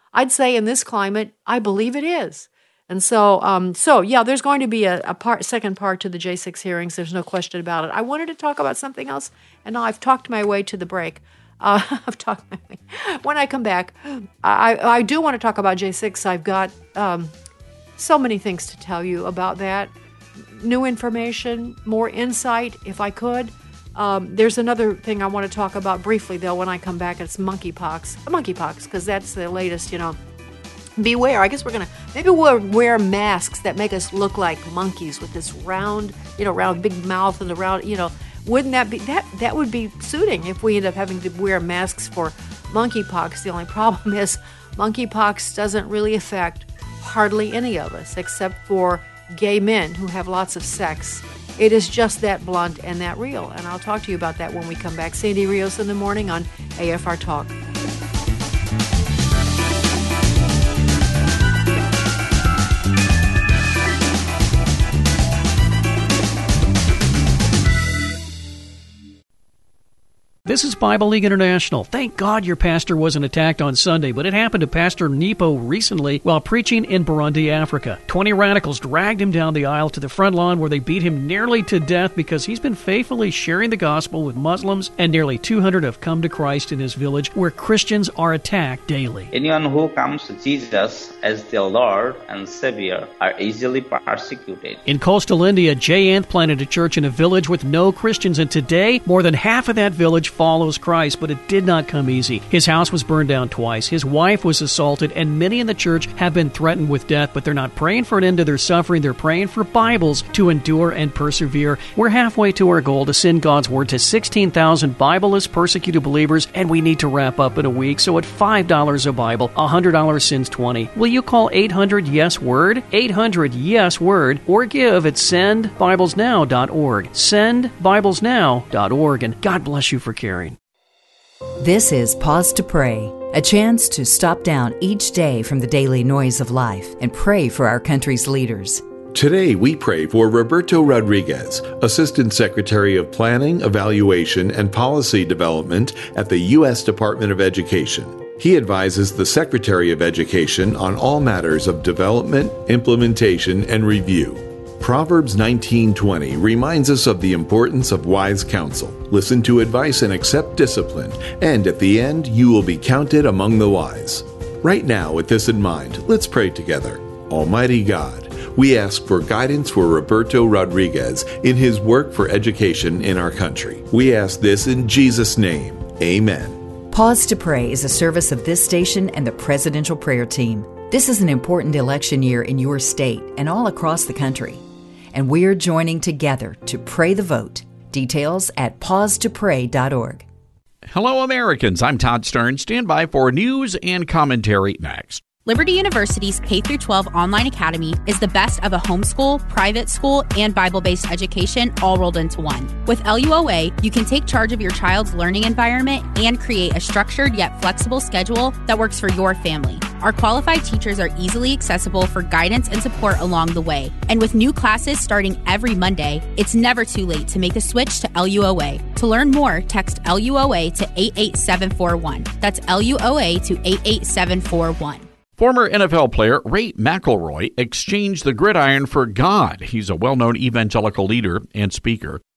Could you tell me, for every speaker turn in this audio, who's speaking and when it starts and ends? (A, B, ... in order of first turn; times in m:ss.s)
0:00.1-0:17.3 A
0:18.0-0:19.9 A
0:20.5-0:30.2 A
0:31.0-0:57.5 A
1:10.5-1:29.3 B
1:29.3-1:34.8 C
1:34.9-2:10.6 B
2:11.6-2:18.8 D
2:19.1-2:56.6 E
2:56.9-3:10.3 D
3:10.9-3:15.2 F
3:15.4-3:45.1 G
3:45.4-3:52.2 F